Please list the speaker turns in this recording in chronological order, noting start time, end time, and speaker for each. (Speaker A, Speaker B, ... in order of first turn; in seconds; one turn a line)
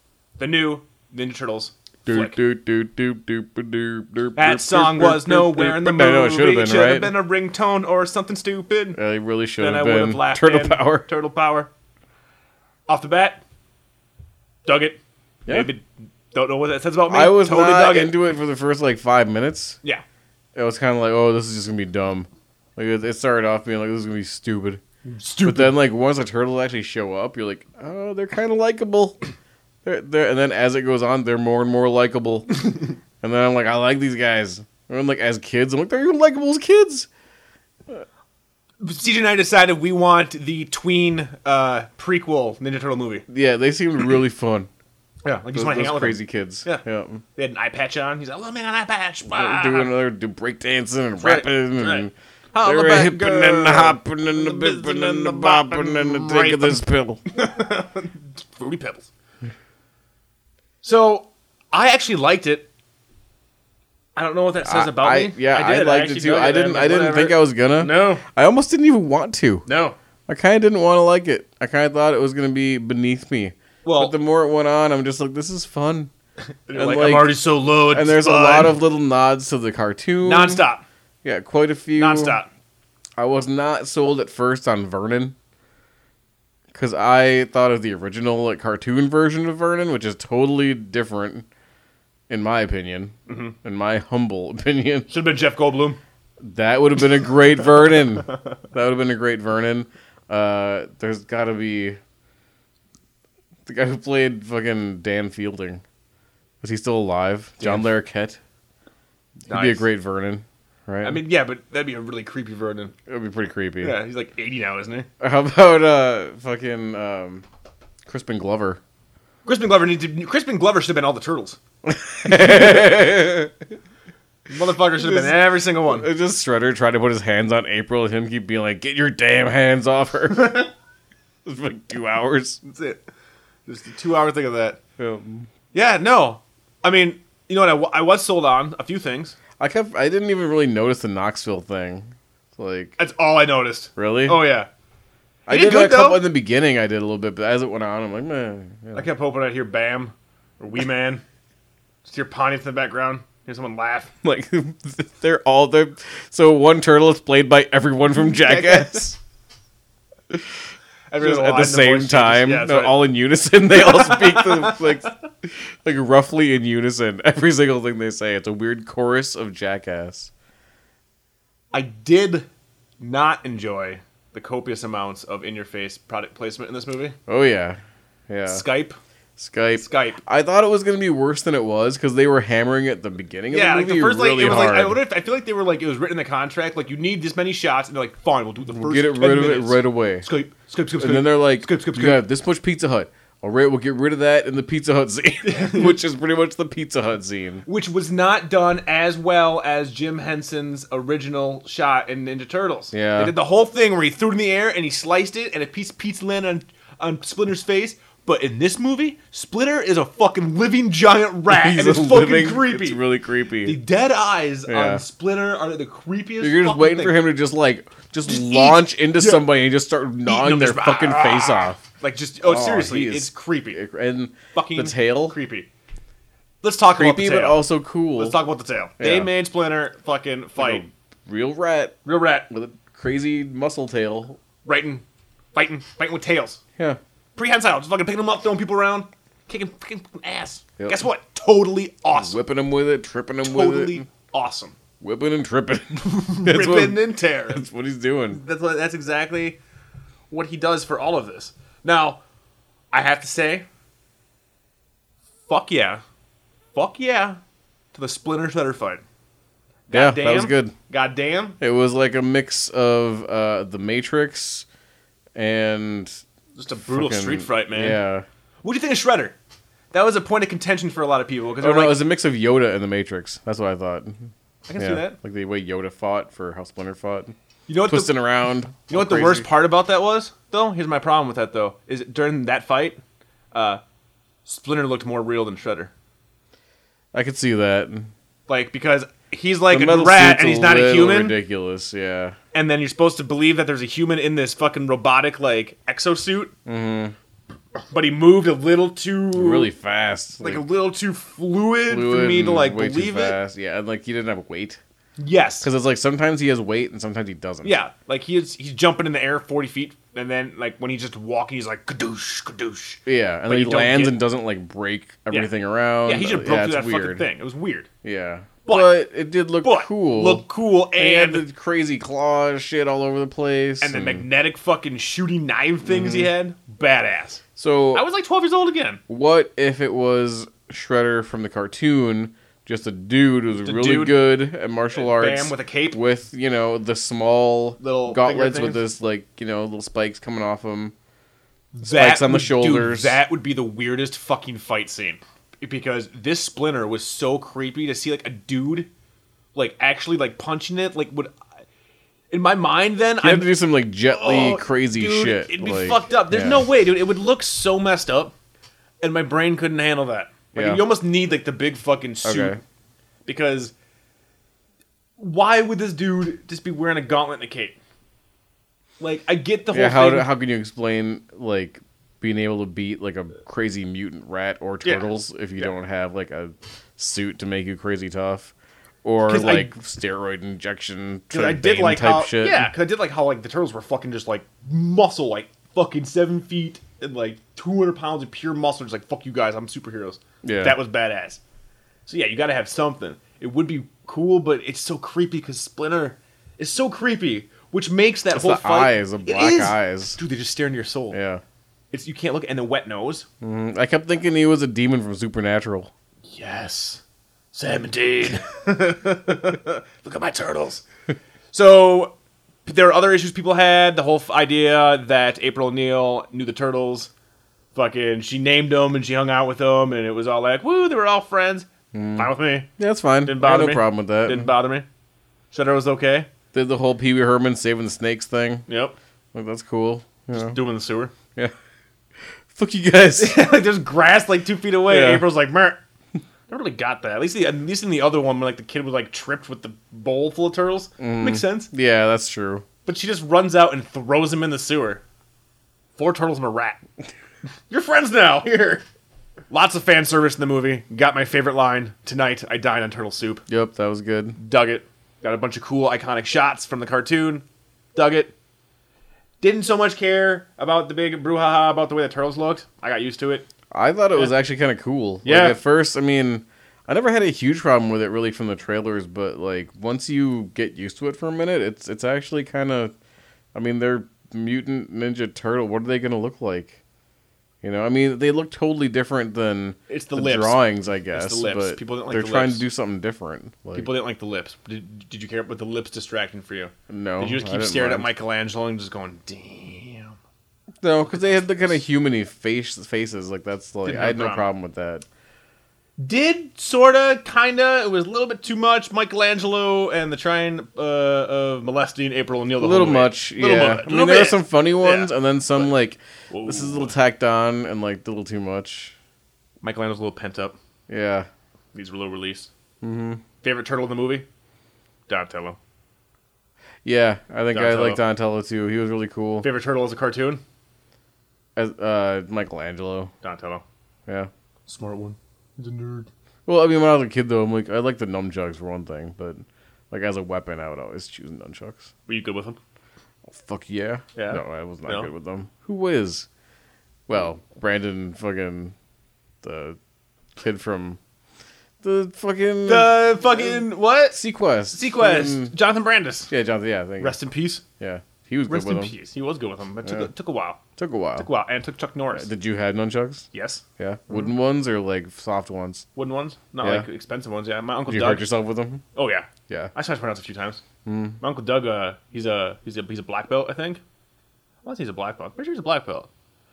Speaker A: 0.4-2.4
Speaker B: 2.1-7.2
Speaker A: 4.4-9.0
Speaker B: 8.9-11.1
Speaker A: 9.6-11.7
Speaker A: 12.9-13.4
Speaker A: 14.7-18.2
Speaker B: 17.1-19.8
Speaker B: 20.6-24.8
Speaker A: 25.1-25.8
Speaker B: 25.4-29.2
Speaker B: 29.8-37.1
Speaker A: 38.8-43.3
Speaker B: 43.3-44.7
Speaker A: 45.2-46.8
Speaker B: 45.5-47.2
Speaker A: 47.4-49.9
Speaker B: 49.3-57.2
Speaker A: 51.2-59.1
Speaker A: 60.8-62.7
Speaker A: 64.2-68.2
Speaker B: 64.6-69.7
Speaker A: 69.7-70.0
Speaker B: 70.3-76.1
Speaker A: 73.8-74.2
Speaker A: 76.7-78.8
Speaker B: 76.7-80.7
Speaker A: 80.2-80.8
Speaker B: 81.2-82.4
Speaker A: 82.0-82.5
Speaker B: 83.2-85.3
Speaker B: 86.7-91.5
Speaker B: 92.3-95.1
Speaker A: 93.3-93.5
Speaker A: 95.1-96.0
Speaker B: 96.4-102.0
Speaker B: 103.7-105.8
Speaker B: 106.6-108.4
Speaker A: 107.6-107.9
Speaker A: 109.5-109.9
Speaker B: 109.5-111.2
Speaker A: 111.0-112.9
Speaker B: 113.1-114.0
Speaker A: 113.8-115.1
Speaker B: 115.2-117.5
Speaker B: 118.1-118.8
Speaker A: 119.5-121.6
Speaker B: 121.8-123.5
Speaker A: 124.5-126.1
Speaker B: 125.0-130.7
Speaker B: 131.4-132.6
Speaker A: 132.6-133.0
Speaker A: 133.7-134.8
Speaker B: 135.0-135.5
Speaker A: 135.7-139.4
Speaker B: 139.6-143.0
Speaker A: 143.0-144.7
Speaker B: 144.0-144.4
Speaker B: 145.5-149.1
Speaker A: 145.5-146.2
Speaker A: 148.9-151.2
Speaker A: 152.1-154.1
Speaker B: 154.2-159.2
Speaker A: 158.2-159.1
Speaker B: 160.3-160.6
Speaker A: 161.1-163.1
Speaker B: 161.2-170.3
Speaker A: 163.7-165.1
Speaker A: 171.7-172.5
Speaker A: 173.0-177.2
Speaker B: 177.3-178.6
Speaker A: 178.5-179.0
Speaker B: 179.4-185.0
Speaker A: 179.8-180.2
Speaker A: 183.5-192.3
Speaker B: 188.7-190.3
Speaker B: 191.0-197.7
Speaker A: 195.4-196.0
Speaker A: 197.7-213.0
Speaker B: 202.9-203.3
Speaker B: 211.5-213.8
Speaker A: 213.6-217.2
Speaker B: 214.7-215.0
Speaker B: 216.4-221.8
Speaker A: 218.3-219.5
Speaker A: 220.2-223.8
Speaker B: 222.4-225.4
Speaker A: 224.5-225.7
Speaker A: 226.6-227.6
Speaker B: 227.0-228.4
Speaker A: 228.2-230.8
Speaker B: 229.0-229.3
Speaker B: 230.6-234.4
Speaker A: 232.1-232.5
Speaker A: 234.7-236.6
Speaker A: 237.4-242.4
Speaker B: 242.1-244.1
Speaker A: 243.4-244.8
Speaker B: 245.0-248.4
Speaker A: 246.1-247.6
Speaker A: 248.3-249.6
Speaker A: 250.3-252.2
Speaker A: 252.9-253.7
Speaker A: 255.5-256.0
Speaker A: 256.8-257.4
Speaker A: 257.9-259.0
Speaker A: 259.9-261.6
Speaker B: 259.9-260.8
Speaker B: 261.6-264.7
Speaker B: 265.4-266.2
Speaker A: 266.6-268.0
Speaker B: 266.8-268.3
Speaker A: 268.6-269.4
Speaker A: 269.9-272.0
Speaker B: 271.6-279.5
Speaker A: 274.7-275.2
Speaker A: 277.7-278.2
Speaker A: 278.9-283.0
Speaker A: 283.5-283.8
Speaker A: 284.5-285.9
Speaker B: 287.1-288.1
Speaker A: 288.5-291.4
Speaker B: 289.7-292.4
Speaker A: 292.5-296.5
Speaker B: 296.7-297.1
Speaker A: 297.8-299.7
Speaker B: 299.3-300.6
Speaker A: 300.4-303.4
Speaker B: 301.9-304.8
Speaker A: 305.2-305.7
Speaker B: 305.6-307.8
Speaker A: 307.6-314.2
Speaker B: 313.1-317.3
Speaker A: 316.0-317.9
Speaker B: 318.0-324.3
Speaker A: 318.7-318.9
Speaker A: 319.6-321.4
Speaker A: 323.8-327.4
Speaker B: 325.9-326.3
Speaker B: 327.6-328.1
Speaker A: 327.9-329.0
Speaker B: 329.1-340.9
Speaker A: 333.6-334.4
Speaker A: 334.9-336.0
Speaker A: 337.8-338.8
Speaker A: 341.7-348.9
Speaker B: 341.9-343.2
Speaker A: 349.6-351.3
Speaker A: 352.3-353.6
Speaker B: 353.2-356.7
Speaker A: 354.1-358.3
Speaker A: 359.0-362.6
Speaker B: 360.5-360.9
Speaker B: 362.2-362.6
Speaker A: 363.3-363.7
Speaker A: 365.2-367.8
Speaker A: 369.0-370.3
Speaker B: 369.7-378.5
Speaker A: 374.8-375.7
Speaker B: 379.0-382.7
Speaker A: 379.3-379.7
Speaker A: 381.3-391.4
Speaker B: 390.4-390.8
Speaker A: 392.1-401.2
Speaker B: 398.3-400.2
Speaker B: 401.1-401.4
Speaker A: 401.9-403.3
Speaker B: 403.4-405.9
Speaker A: 406.3-407.0
Speaker A: 407.5-410.8
Speaker A: 411.5-412.1
Speaker A: 412.6-417.1
Speaker A: 417.8-422.7
Speaker B: 421.9-424.5
Speaker A: 423.2-424.9
Speaker A: 425.5-426.3
Speaker B: 426.5-428.7
Speaker A: 428.7-428.9
Speaker B: 429.3-430.6
Speaker A: 430.3-431.1
Speaker B: 432.5-433.4
Speaker A: 433.2-435.8
Speaker B: 434.9-435.3
Speaker A: 436.5-441.7
Speaker B: 441.0-442.6
Speaker A: 442.9-445.0
Speaker A: 446.0-446.8
Speaker A: 447.7-448.8
Speaker A: 449.5-453.4
Speaker B: 453.5-454.4
Speaker A: 454.4-458.3
Speaker A: 459.4-463.5
Speaker B: 463.7-472.9
Speaker A: 465.2-465.6
Speaker B: 473.5-476.8
Speaker B: 477.6-483.9
Speaker A: 479.9-482.6
Speaker A: 483.7-490.2
Speaker B: 486.9-488.1
Speaker B: 490.8-495.1
Speaker A: 491.1-491.8
Speaker A: 493.9-494.5
Speaker A: 496.0-505.7
Speaker B: 502.6-508.9
Speaker A: 506.3-507.0
Speaker A: 509.6-510.6
Speaker B: 510.9-511.3
Speaker A: 511.7-512.5
Speaker B: 512.8-513.2
Speaker A: 513.4-514.3
Speaker A: 515.1-515.6
Speaker B: 516.8-519.5
Speaker A: 517.5-518.0
Speaker A: 519.4-520.4
Speaker B: 521.6-523.1
Speaker A: 523.2-523.6
Speaker A: 524.7-526.1
Speaker B: 526.5-531.9
Speaker A: 532.1-532.6
Speaker B: 533.3-536.3
Speaker A: 534.2-535.1
Speaker B: 537.1-538.7
Speaker B: 539.4-539.8
Speaker B: 540.4-541.0
Speaker B: 541.8-545.5
Speaker A: 542.6-544.2
Speaker A: 544.7-546.3
Speaker B: 546.3-547.2
Speaker A: 547.0-547.6
Speaker B: 547.8-548.9
Speaker A: 548.5-550.6
Speaker B: 550.8-551.3
Speaker A: 551.2-552.3
Speaker B: 552.1-553.3
Speaker A: 553.3-553.6
Speaker B: 553.8-555.9
Speaker A: 556.0-558.3
Speaker B: 556.6-556.9
Speaker B: 557.9-558.8
Speaker A: 559.0-560.6
Speaker B: 560.9-561.2
Speaker A: 561.2-563.8
Speaker A: 564.6-566.1